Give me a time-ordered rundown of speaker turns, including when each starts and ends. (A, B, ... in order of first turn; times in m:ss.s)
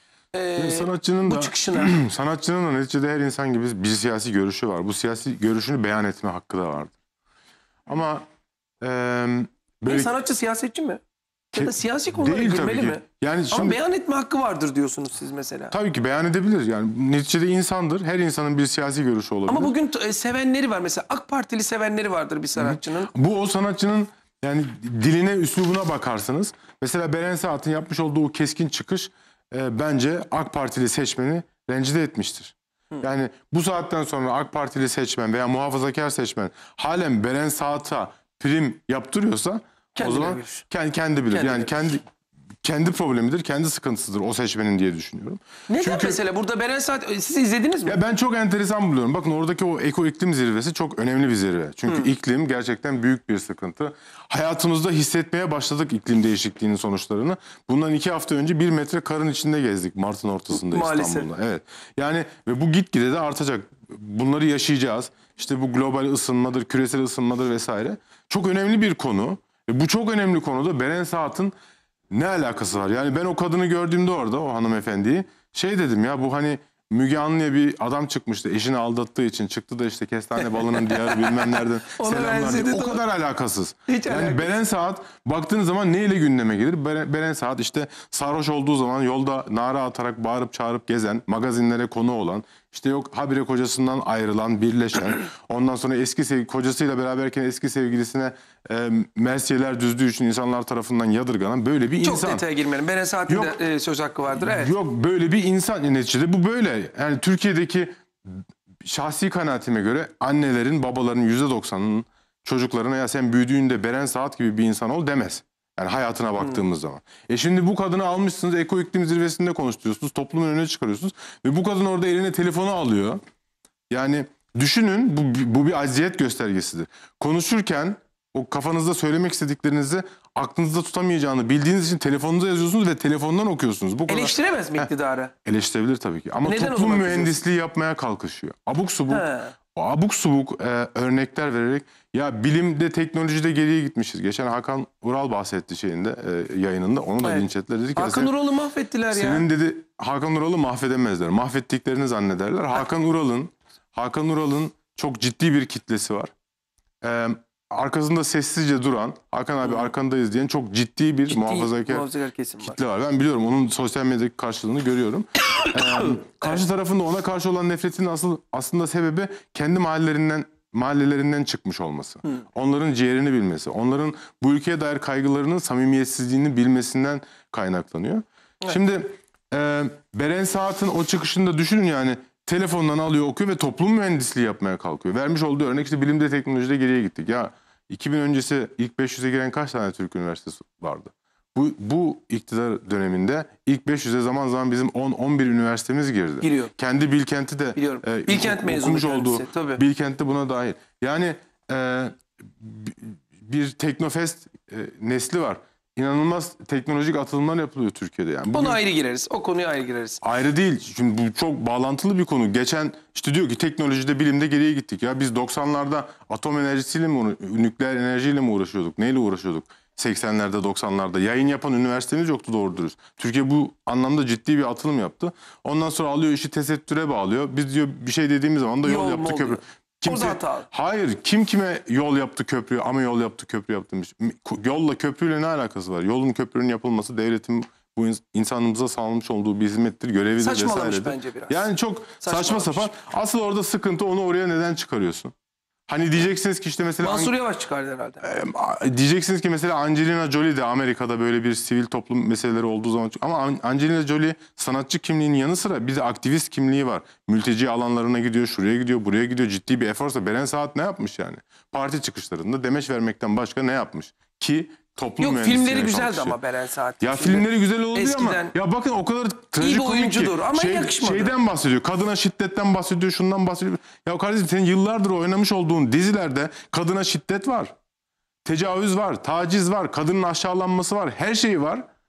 0:00.3-0:02.0 A
0:00.6-0:06.9 B
0:07.9-0:08.2 B
0:08.8-0:10.1 B
0:09.9-0:15.7 A
0:11.6-0:13.8 B
0:15.7-0:19.7 B
0:19.5-0:23.1 A
0:22.6-0:42.0 B
0:40.0-0:40.6 A
0:41.3-0:41.7 A
0:42.6-0:46.2 B
0:45.7-0:48.0 A
0:47.9-1:11.5 B
1:00.6-1:01.3 A
1:12.1-1:42.4 B
1:20.6-1:23.0 A
1:23.9-1:24.5 A
1:42.0-1:44.7 A
1:43.3-1:43.6 B
1:44.4-2:03.2 B
2:03.9-2:14.9 B
2:14.1-2:15.3 A
2:15.4-2:28.3 B
2:16.4-2:17.4 A
2:19.1-2:19.5 A
2:27.2-2:29.5 A
2:29.1-2:36.3 B
2:37.0-2:42.1 B
2:41.3-2:42.8 A
2:42.6-3:28.8 B
3:16.4-3:16.7 A
3:17.8-3:19.8 A
3:28.5-3:30.2 A
3:30.2-4:05.3 B
3:48.8-3:50.7 A
4:00.4-4:02.9 A
4:05.9-4:07.3 B
4:07.0-4:08.3 A
4:08.2-4:26.4 B
4:25.2-4:28.5 A
4:27.0-4:37.7 B
4:29.6-4:31.4 A
4:38.4-4:41.8 B